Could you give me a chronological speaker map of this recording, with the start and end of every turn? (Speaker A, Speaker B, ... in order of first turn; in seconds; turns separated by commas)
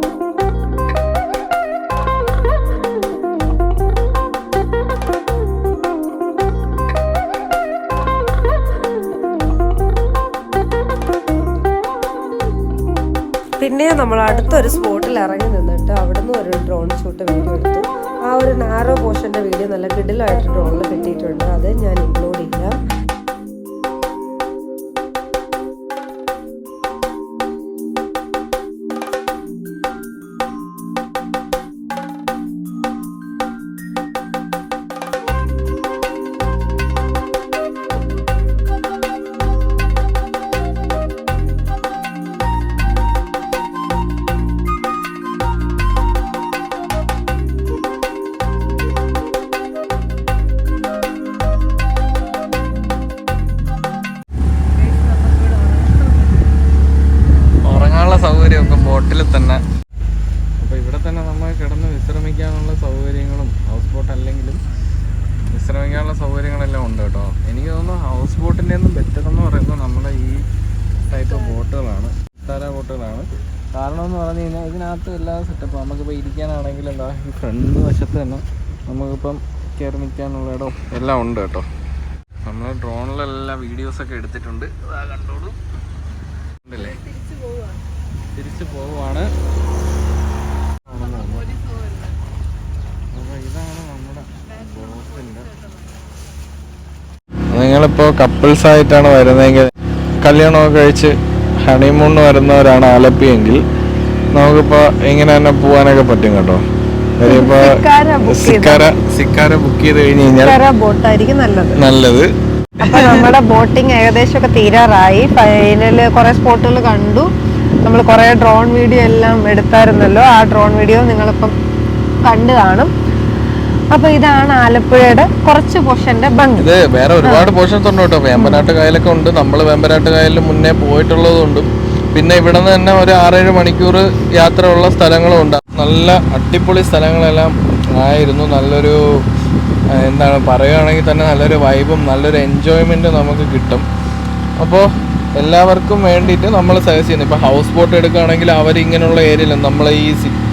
Speaker A: 13.6-22.8, Speaker B: 55.3-55.8, Speaker C: 57.6-59.6, Speaker C: 60.6-64.6, Speaker C: 65.5-70.4, Speaker C: 71.1-81.7, Speaker C: 82.5-85.6, Speaker C: 86.7-87.0, Speaker C: 88.4-89.3, Speaker C: 90.9-91.5, Speaker C: 93.1-95.5, Speaker C: 97.5-99.7, Speaker C: 100.2-101.2, Speaker C: 101.7-103.6, Speaker C: 104.3-106.6, Speaker C: 107.2-110.6, Speaker B: 107.2-108.8, Speaker B: 110.3-111.8, Speaker C: 111.8-112.3, Speaker B: 112.8-117.3, Speaker C: 112.8-113.3, Speaker B: 117.8-121.5, Speaker B: 122.2-122.9, Speaker B: 123.9-126.7, Speaker C: 126.6-139.0, Speaker B: 127.2-127.5, Speaker B: 128.3-128.7, Speaker C: 140.0-143.8, Speaker C: 144.6-144.9, Speaker C: 145.4-150.3